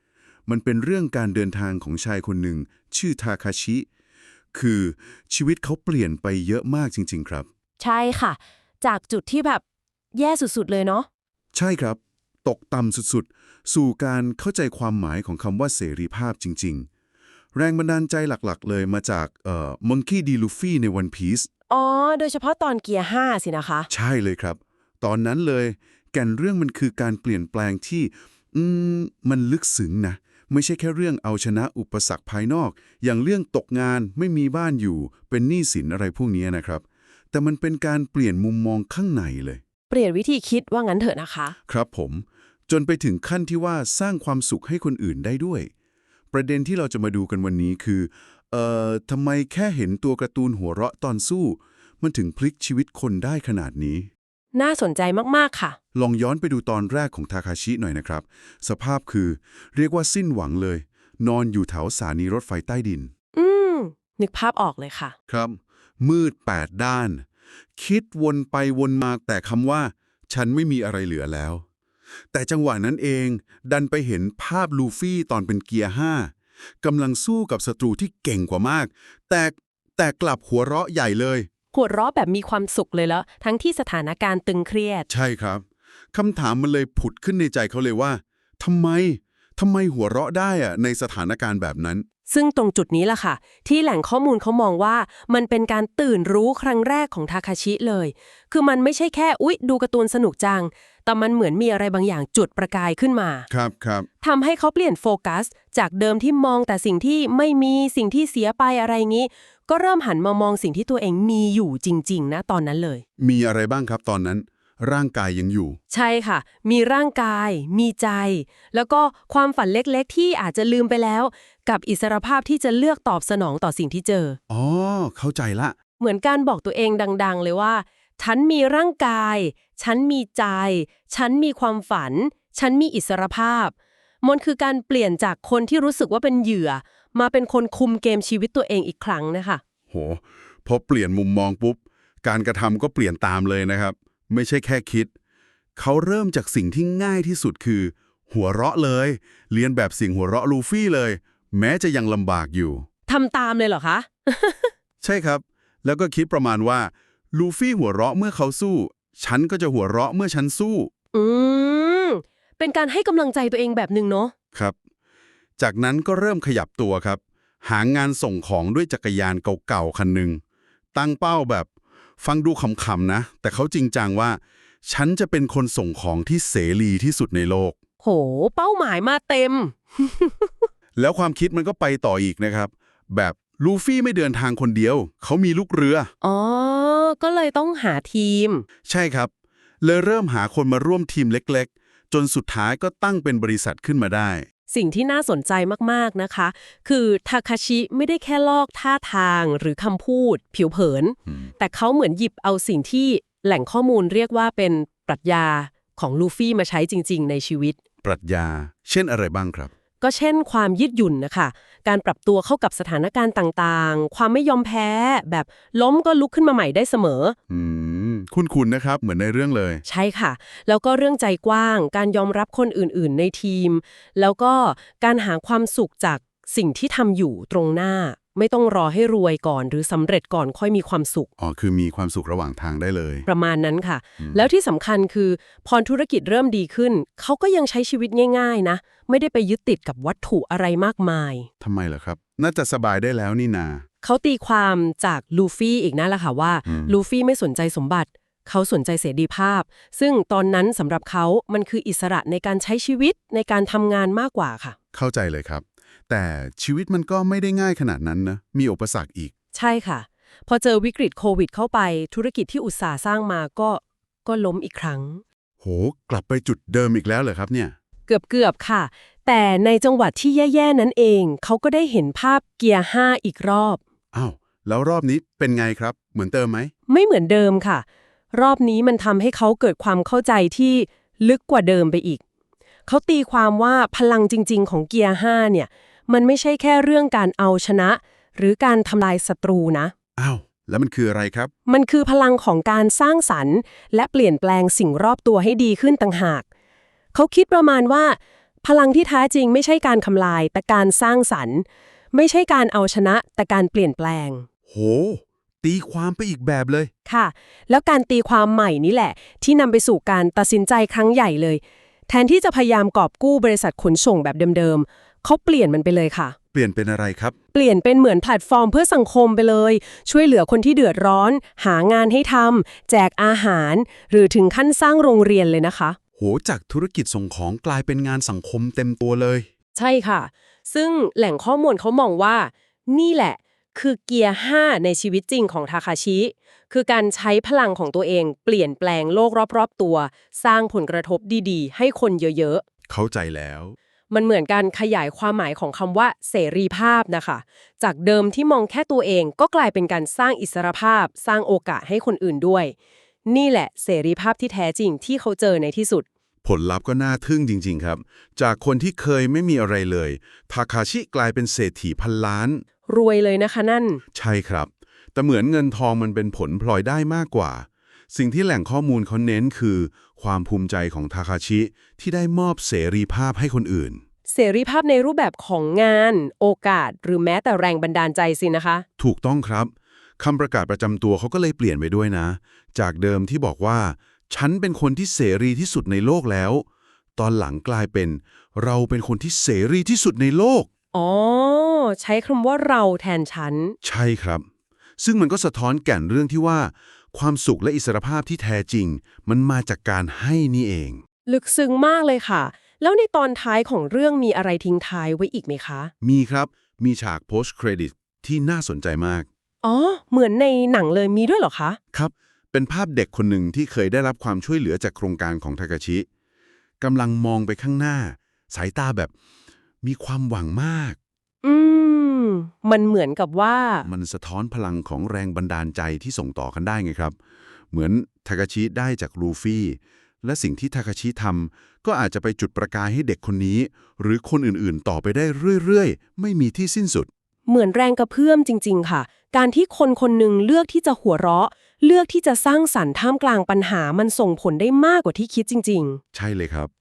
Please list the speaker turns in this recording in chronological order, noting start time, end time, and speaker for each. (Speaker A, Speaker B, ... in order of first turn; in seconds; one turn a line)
Speaker A: 0.5-3.9
Speaker A: 4.5-7.5
Speaker B: 7.8-9.6
Speaker B: 10.1-11.1
Speaker A: 11.5-16.9
Speaker A: 17.6-21.5
Speaker B: 21.7-23.9
Speaker A: 23.9-39.6
Speaker B: 39.9-41.6
Speaker A: 41.7-45.7
Speaker A: 46.3-54.1
Speaker B: 54.5-55.8
Speaker A: 55.9-63.1
Speaker B: 63.4-65.2
Speaker A: 65.3-67.2
Speaker A: 67.8-71.6
Speaker A: 72.3-81.5
Speaker B: 81.7-85.1
Speaker A: 85.1-92.1
Speaker B: 92.3-103.5
Speaker A: 103.5-104.1
Speaker B: 104.2-113.0
Speaker A: 113.2-115.8
Speaker B: 115.9-124.4
Speaker A: 124.5-125.8
Speaker B: 126.0-139.6
Speaker A: 139.9-145.1
Speaker A: 145.8-152.9
Speaker B: 153.1-154.7
Speaker A: 155.0-160.9
Speaker B: 161.1-164.3
Speaker A: 165.6-170.4
Speaker A: 170.9-171.7
Speaker A: 172.2-177.8
Speaker B: 178.0-180.7
Speaker A: 181.0-186.1
Speaker B: 186.2-188.7
Speaker A: 188.9-194.5
Speaker B: 194.7-207.8
Speaker A: 208.0-209.7
Speaker B: 210.0-217.4
Speaker A: 217.5-219.8
Speaker B: 219.8-231.3
Speaker A: 231.4-233.3
Speaker B: 233.3-241.5
Speaker A: 241.6-243.8
Speaker B: 244.0-254.8
Speaker A: 246.7-247.0
Speaker A: 254.9-259.3
Speaker B: 259.5-265.2
Speaker A: 265.6-267.8
Speaker B: 268.1-273.8
Speaker A: 274.1-276.7
Speaker B: 276.9-282.2
Speaker B: 282.9-289.9
Speaker A: 290.2-291.5
Speaker B: 291.7-296.5
Speaker B: 297.1-304.5
Speaker A: 304.7-306.9
Speaker B: 307.1-316.4
Speaker A: 316.5-317.4
Speaker B: 317.5-326.0
Speaker A: 326.2-329.5
Speaker B: 329.8-342.6
Speaker A: 342.9-343.8
Speaker B: 344.1-352.8
Speaker B: 353.3-356.1
Speaker A: 356.4-362.6
Speaker B: 362.9-364.0
Speaker A: 364.1-374.0
Speaker B: 374.3-378.9
Speaker A: 379.0-386.6
Speaker A: 387.2-390.7
Speaker B: 390.9-393.8
Speaker A: 393.8-394.5
Speaker A: 395.0-401.0
Speaker B: 401.3-405.9
Speaker A: 406.0-409.3
Speaker B: 409.6-411.8
Speaker A: 411.9-416.1
Speaker A: 416.8-419.1
Speaker A: 419.8-421.0
Speaker B: 421.4-423.9
Speaker A: 423.8-427.2
Speaker A: 427.7-437.1
Speaker B: 437.5-446.0
Speaker A: 446.1-446.7